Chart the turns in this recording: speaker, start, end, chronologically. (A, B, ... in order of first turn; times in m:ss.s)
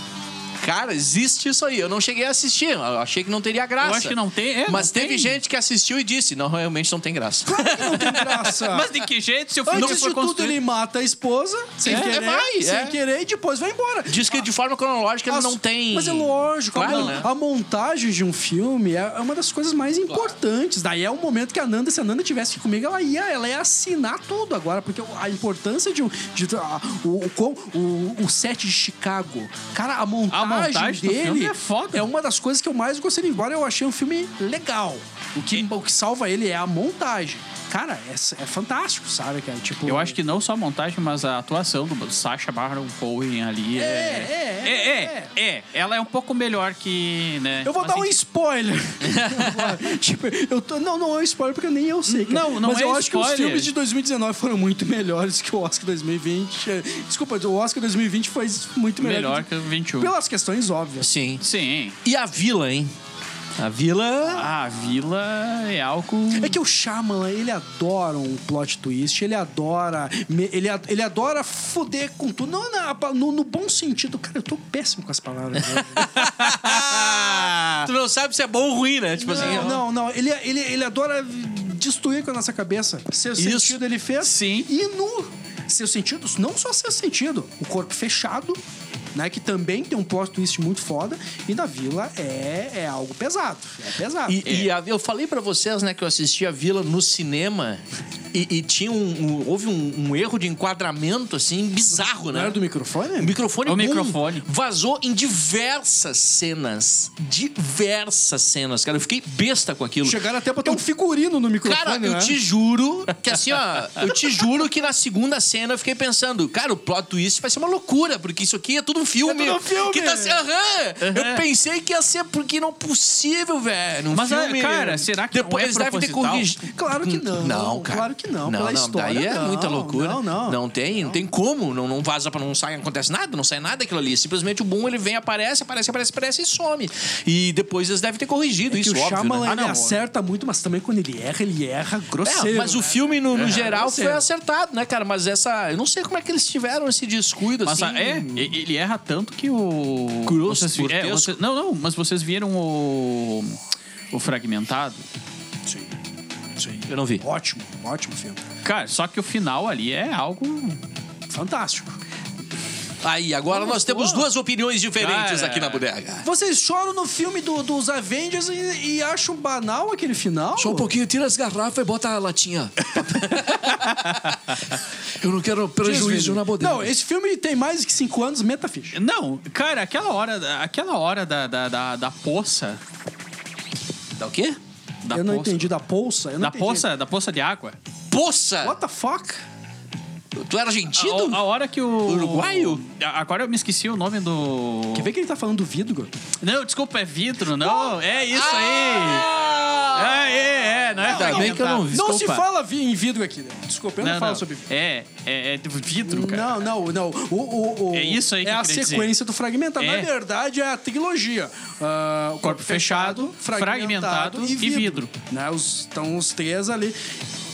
0:00.6-0:08.6 A
0:03.8-0:05.4 B
0:07.4-0:08.9 C
0:08.6-0:10.6 B
0:09.6-0:14.4 C
0:09.7-0:10.0 A
0:11.8-0:13.0 A
0:11.9-0:12.1 B
0:14.1-0:17.3 A
0:15.3-0:40.2 C
0:16.8-0:17.3 B
0:30.3-0:32.1 B
0:39.8-0:48.2 B
0:43.8-0:45.3 C
0:47.6-1:01.1 C
0:49.0-0:49.7 A
0:52.1-0:53.7 B
0:59.0-1:00.1 B
1:01.0-1:01.4 A
1:01.4-1:02.0 B
1:02.0-1:02.9 A
1:03.6-1:04.5 A
1:04.3-1:06.6 B
1:06.3-1:16.1 C
1:15.7-1:19.8 A
1:16.1-1:17.1 B
1:19.2-1:28.6 C
1:19.4-1:19.8 B
1:23.4-1:23.8 A
1:24.2-1:24.7 B
1:29.1-1:34.5 C
1:34.3-1:42.6 A
1:41.9-1:43.4 C
1:43.2-1:50.8 A
1:43.7-1:44.5 B
1:50.0-1:52.4 C
1:51.6-2:19.5 A
1:59.2-2:00.5 C
2:01.0-2:01.4 B
2:04.1-2:06.5 B
2:06.6-2:11.2 C
2:18.7-2:24.3 C
2:19.4-2:20.0 B
2:22.2-2:28.5 A
2:27.6-2:33.6 B
2:30.3-2:31.4 A
2:34.1-2:35.0 B
2:35.7-2:36.0 C
2:36.6-2:38.4 C
2:36.9-2:37.2 A
2:38.6-2:40.8 B
2:41.3-2:42.0 C
2:43.0-2:46.3 A
2:43.5-2:44.3 C
2:45.0-2:45.8 B
2:46.2-2:50.9 C
2:50.6-2:54.3 A
2:53.0-2:54.6 B
2:55.2-2:56.9 A
2:55.8-2:59.0 C
2:58.9-3:02.8 B
3:04.2-3:04.6 A
3:05.0-3:05.7 B
3:05.1-3:06.9 C
3:06.4-3:07.8 B
3:08.1-3:08.8 A
3:08.6-3:09.4 C
3:10.4-3:11.4 A
3:10.9-3:15.1 B
3:12.0-3:12.8 A
3:14.9-3:16.1 C
3:16.4-3:19.4 B
3:18.3-3:20.4 A
3:19.9-3:22.0 B
3:21.0-3:22.4 A
3:21.0-3:24.7 C
3:24.0-3:26.6 B
3:26.0-3:37.0 C
3:27.9-3:29.2 B
3:29.8-3:30.1 B
3:32.4-3:35.1 B